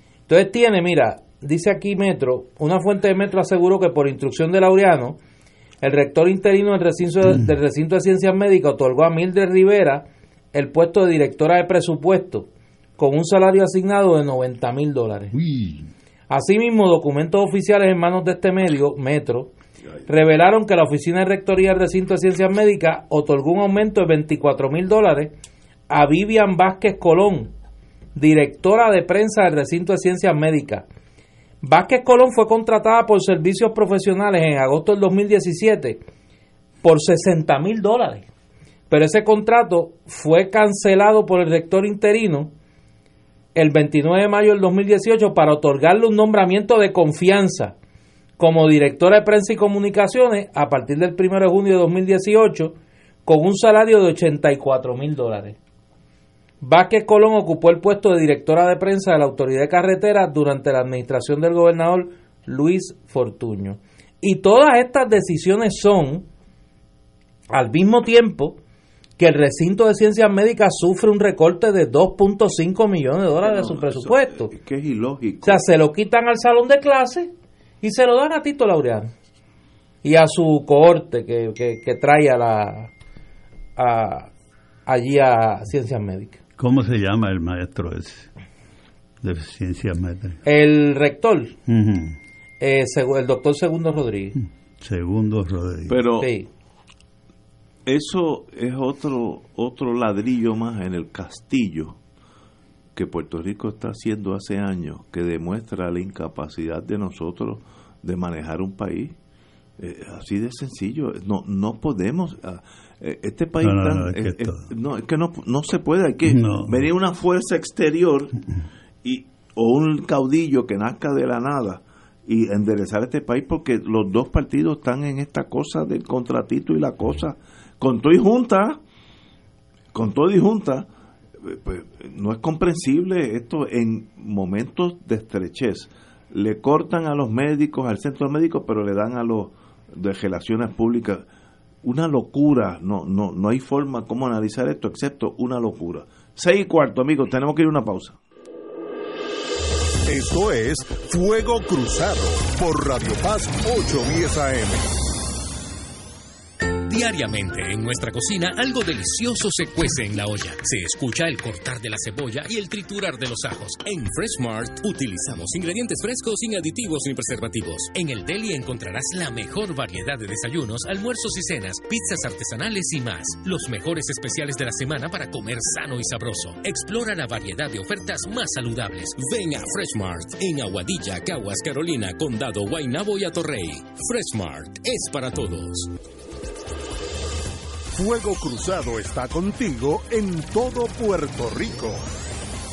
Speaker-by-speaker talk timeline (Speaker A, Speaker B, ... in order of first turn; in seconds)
Speaker A: 0.3-5.2, 5.8-15.3, 16.3-19.5, 20.1-25.3, 25.9-27.5, 28.2-30.9, 31.6-36.0, 36.8-38.3, 38.9-42.5, 43.5-47.8, 48.4-55.6, 56.6-66.3, 67.5-68.6, 69.2-74.5, 75.4-77.3, 77.8-79.1, 80.0-82.9, 83.8-84.3, 84.9-86.4, 90.4-91.6, 92.6-94.4, 96.2-96.5
Speaker B: 15.3-15.9, 86.6-88.3, 89.2-90.4, 91.7-92.2, 94.8-96.0, 113.6-114.7, 116.3-116.8
Speaker C: 73.4-75.7, 95.9-96.3, 97.9-102.0, 103.0-109.2, 109.8-118.4, 119.0-128.8, 129.9-130.9, 131.4-141.2, 141.8-148.2
Speaker D: 150.1-155.0, 187.9-192.1
Speaker E: 156.9-185.9